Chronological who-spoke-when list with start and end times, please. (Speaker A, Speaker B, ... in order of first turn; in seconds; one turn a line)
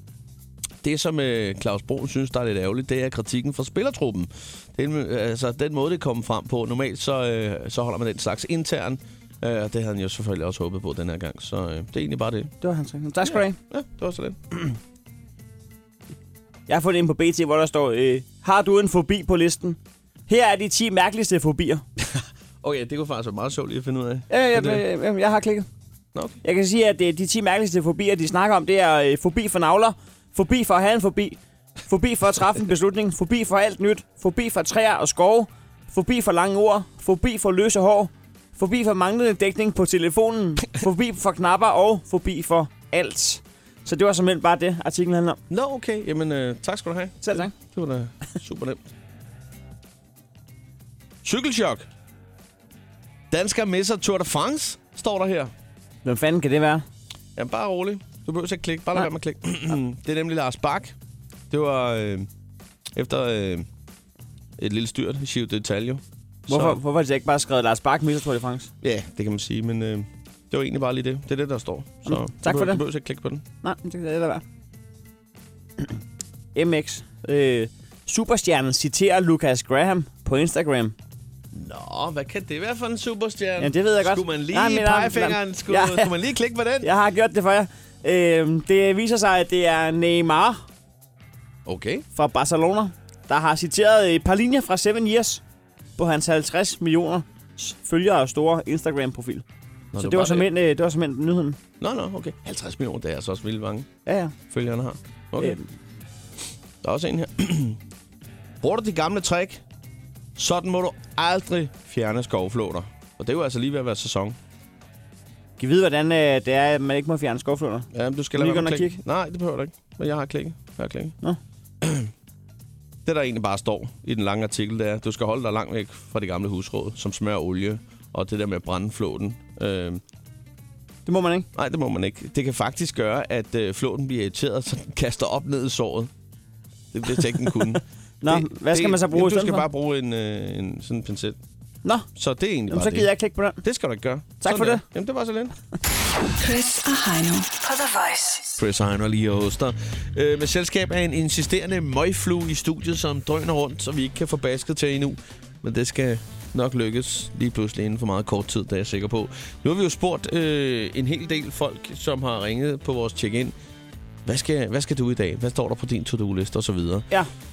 Speaker A: 0.8-12.5
Speaker B: 12.6-13.6
Speaker A: 13.2-14.6
Speaker B: 16.7-21.8
Speaker A: 22.6-24.8
Speaker B: 24.3-25.7
Speaker B: 26.4-45.4
Speaker A: 45.5-48.9
Speaker B: 47.2-47.5
Speaker A: 51.2-51.9
Speaker A: 53.3-55.5
Speaker B: 56.0-56.8
Speaker A: 57.4-60.9
Speaker A: 61.5-62.3
Speaker A: 62.9-63.7
Speaker A: 64.6-66.8
Speaker B: 66.5-68.7
Speaker A: 68.8-73.4
Speaker B: 72.0-72.8
Speaker B: 73.6-74.4
Speaker B: 76.5-80.9
Speaker A: 81.5-86.9
Speaker B: 83.6-86.1
Speaker B: 86.8-90.6
Speaker A: 91.7-92.0
Speaker B: 92.1-95.4
Speaker B: 96.0-99.4
Speaker A: 99.9-100.5
Speaker B: 100.0-101.6
Speaker A: 101.8-103.9
Speaker B: 104.0-104.3
Speaker A: 104.5-105.6
Speaker B: 105.4-105.7
Speaker A: 106.8-107.8
Speaker A: 108.6-109.6
Speaker A: 110.3-114.4
Speaker B: 115.6-119.0
Speaker A: 117.9-121.2
Speaker A: 121.8-122.1
Speaker A: 123.0-130.0
Speaker B: 131.1-131.5
Speaker A: 131.5-136.1
Speaker A: 136.9-141.4
Speaker B: 138.2-139.6
Speaker A: 142.1-145.6
Speaker B: 142.7-143.6
Speaker B: 144.4-144.8
Speaker C: 146.4-148.4
Speaker A: 148.6-163.5
Speaker A: 164.2-167.1